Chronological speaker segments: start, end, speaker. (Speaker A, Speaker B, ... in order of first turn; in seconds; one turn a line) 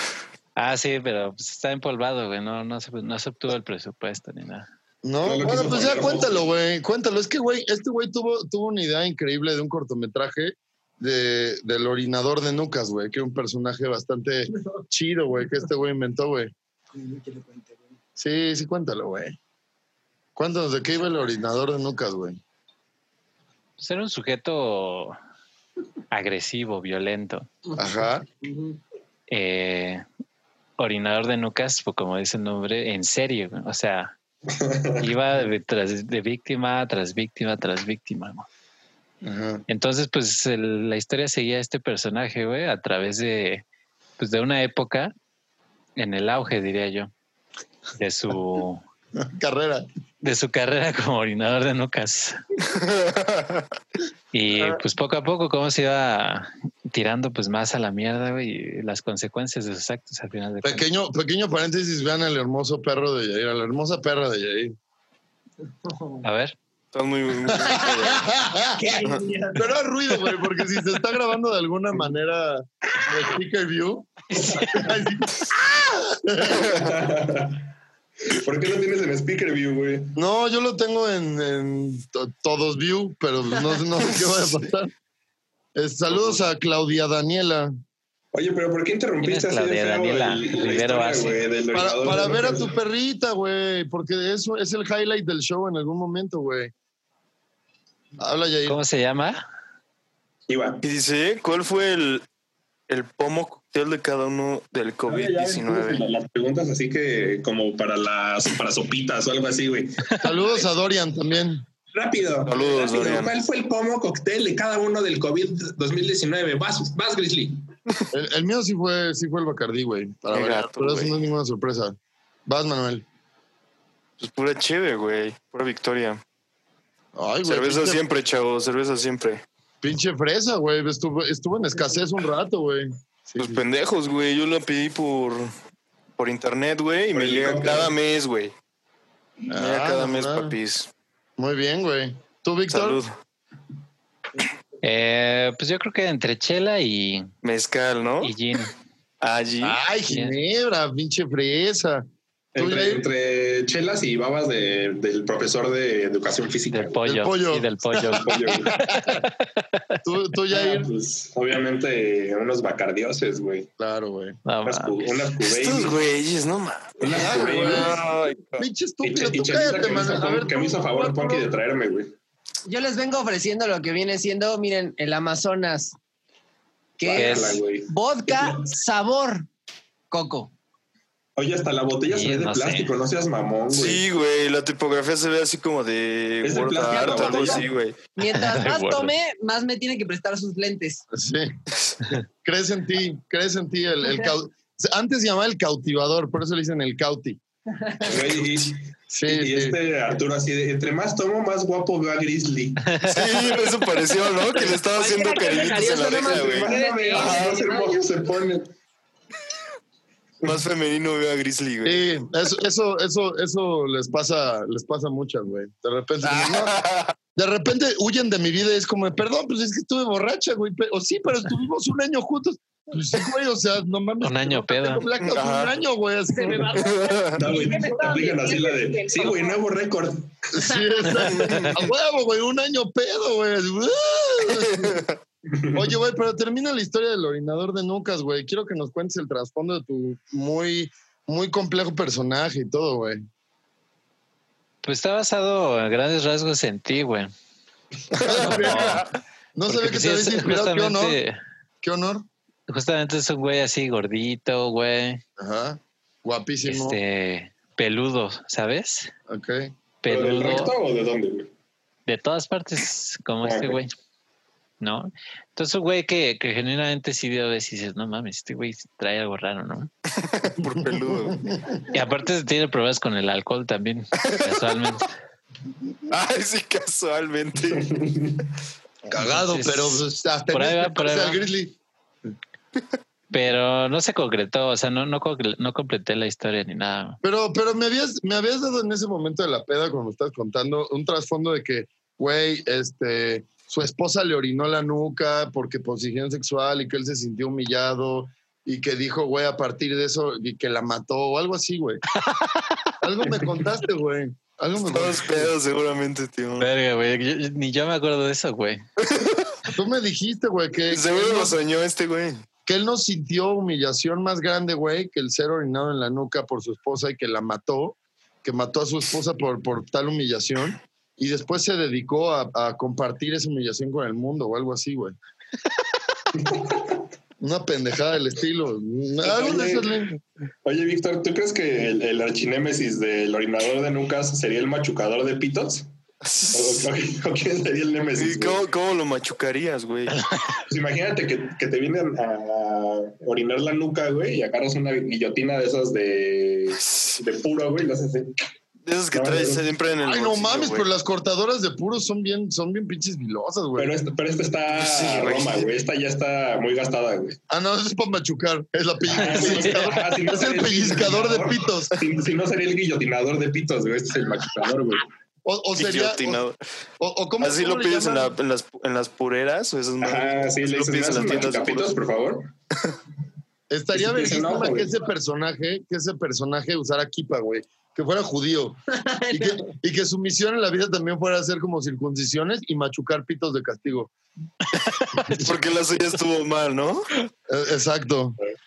Speaker A: 0.6-4.7
Speaker B: 5.0-16.5
Speaker C: 5.2-6.5
Speaker D: 16.9-17.8
Speaker B: 18.2-19.4
Speaker B: 20.4-22.4
Speaker A: 23.8-25.2
Speaker A: 26.1-27.5
Speaker B: 27.8-28.2
Speaker D: 28.4-28.8
Speaker A: 29.3-30.0
Speaker A: 30.8-34.1
Speaker C: 34.5-35.0
Speaker A: 35.0-38.5
Speaker B: 39.2-39.6
Speaker A: 39.7-43.6
Speaker A: 44.2-45.1
Speaker A: 46.0-47.1
Speaker A: 48.0-48.8
Speaker B: 49.2-49.9
Speaker A: 50.2-52.4
Speaker E: 52.6-53.7
Speaker A: 54.3-60.8
Speaker B: 60.6-64.7
Speaker D: 65.9-66.2
Speaker A: 66.2-66.5
Speaker E: 66.9-68.3
Speaker B: 67.5-68.9
Speaker D: 68.7-69.7
Speaker B: 69.5-76.9
Speaker C: 76.5-77.7
Speaker C: 78.3-80.1
Speaker B: 80.1-84.9
Speaker B: 85.8-87.7
Speaker C: 88.3-92.7
Speaker A: 89.2-91.4
Speaker B: 91.7-96.7
Speaker B: 98.2-98.8
Speaker A: 98.7-99.4
Speaker C: 100.5-100.8
Speaker E: 100.8-102.2
Speaker E: 102.9-106.0
Speaker C: 105.1-110.2
Speaker B: 110.2-111.6
Speaker C: 111.9-117.6
Speaker E: 112.5-113.3
Speaker B: 118.1-123.0
Speaker E: 120.3-121.1
Speaker E: 124.2-126.2
Speaker B: 127.2-128.0
Speaker E: 127.4-129.4
Speaker B: 129.8-133.6
Speaker E: 133.4-135.5
Speaker E: 136.2-138.5
Speaker C: 137.1-137.9
Speaker B: 139.5-140.6
Speaker E: 139.5-140.9
Speaker B: 141.4-143.0
Speaker E: 142.7-143.1
Speaker A: 144.8-147.3
Speaker E: 147.4-148.3
Speaker A: 148.2-148.7
Speaker E: 149.2-149.8
Speaker B: 149.6-152.0
Speaker A: 150.1-150.4
Speaker C: 152.5-157.0
Speaker B: 152.6-153.1
Speaker A: 156.7-159.8
Speaker B: 157.1-159.2
Speaker C: 158.2-158.8
Speaker B: 160.0-160.9
Speaker C: 160.5-163.7
Speaker B: 163.8-164.4
Speaker A: 164.4-165.3
Speaker C: 164.6-166.0
Speaker E: 165.4-168.6
Speaker C: 167.0-168.0
Speaker B: 167.1-171.5
Speaker C: 169.0-172.1
Speaker D: 172.6-175.9
Speaker D: 177.0-179.5
Speaker C: 177.0-178.7
Speaker A: 177.1-177.6
Speaker D: 180.1-180.5
Speaker C: 181.4-184.0
Speaker A: 182.1-182.9
Speaker E: 183.7-187.9
Speaker C: 186.4-187.7
Speaker D: 186.8-191.0
Speaker A: 188.3-189.1
Speaker B: 191.1-191.5
Speaker B: 192.4-197.4
Speaker D: 197.8-198.3
Speaker C: 198.0-202.9
Speaker B: 199.1-199.8
Speaker A: 202.9-203.3
Speaker E: 203.0-207.6
Speaker D: 204.7-208.0
Speaker C: 206.1-208.7
Speaker E: 210.4-212.0
Speaker B: 211.8-216.8
Speaker E: 216.2-217.1
Speaker B: 217.3-226.8
Speaker A: 224.2-225.0
Speaker E: 225.2-225.7
Speaker D: 226.3-229.6
Speaker E: 226.7-227.5
Speaker C: 227.3-230.3
Speaker B: 230.5-235.1
Speaker D: 230.6-231.2
Speaker A: 231.3-231.7
Speaker E: 231.3-231.7
Speaker E: 234.7-235.1
Speaker C: 235.5-235.8
Speaker B: 235.7-243.2
Speaker A: 244.8-247.3
Speaker B: 248.2-251.2
Speaker A: 248.2-249.1
Speaker A: 249.7-251.4
Speaker B: 251.8-252.2
Speaker A: 252.7-255.2
Speaker B: 255.4-257.0
Speaker A: 256.6-259.1
Speaker B: 259.3-259.7
Speaker A: 260.0-260.7
Speaker C: 260.1-261.5
Speaker A: 262.1-263.9
Speaker C: 263.4-263.8
Speaker A: 264.8-269.9
Speaker E: 270.1-271.4
Speaker B: 271.3-271.6
Speaker A: 271.9-275.1
Speaker E: 274.2-274.6
Speaker E: 276.1-278.0
Speaker C: 277.8-278.4
Speaker B: 279.1-281.8
Speaker A: 279.1-281.4
Speaker A: 283.3-287.2
Speaker B: 287.2-302.0
Speaker A: 302.3-302.7
Speaker B: 303.0-305.5
Speaker E: 304.8-306.7
Speaker A: 306.6-308.8
Speaker E: 309.0-309.6
Speaker B: 309.7-311.5
Speaker E: 310.9-312.4
Speaker B: 312.6-325.2
Speaker C: 326.4-327.0
Speaker B: 327.4-330.2
Speaker C: 329.2-330.0
Speaker C: 330.6-335.9
Speaker E: 336.2-336.9
Speaker C: 336.5-338.6
Speaker E: 338.1-340.2
Speaker C: 340.7-348.4
Speaker E: 348.9-350.9
Speaker C: 349.1-349.6
Speaker B: 350.0-353.9
Speaker C: 353.8-357.4
Speaker E: 354.7-355.7
Speaker B: 357.5-361.9
Speaker C: 359.1-365.1
Speaker A: 359.2-360.0
Speaker B: 365.4-366.4
Speaker E: 365.8-366.6
Speaker B: 367.0-368.3
Speaker E: 367.4-371.9
Speaker C: 370.0-372.5
Speaker B: 373.7-378.8
Speaker C: 373.9-374.9
Speaker D: 378.9-379.6
Speaker B: 379.3-384.1
Speaker E: 385.2-387.1
Speaker B: 387.5-388.4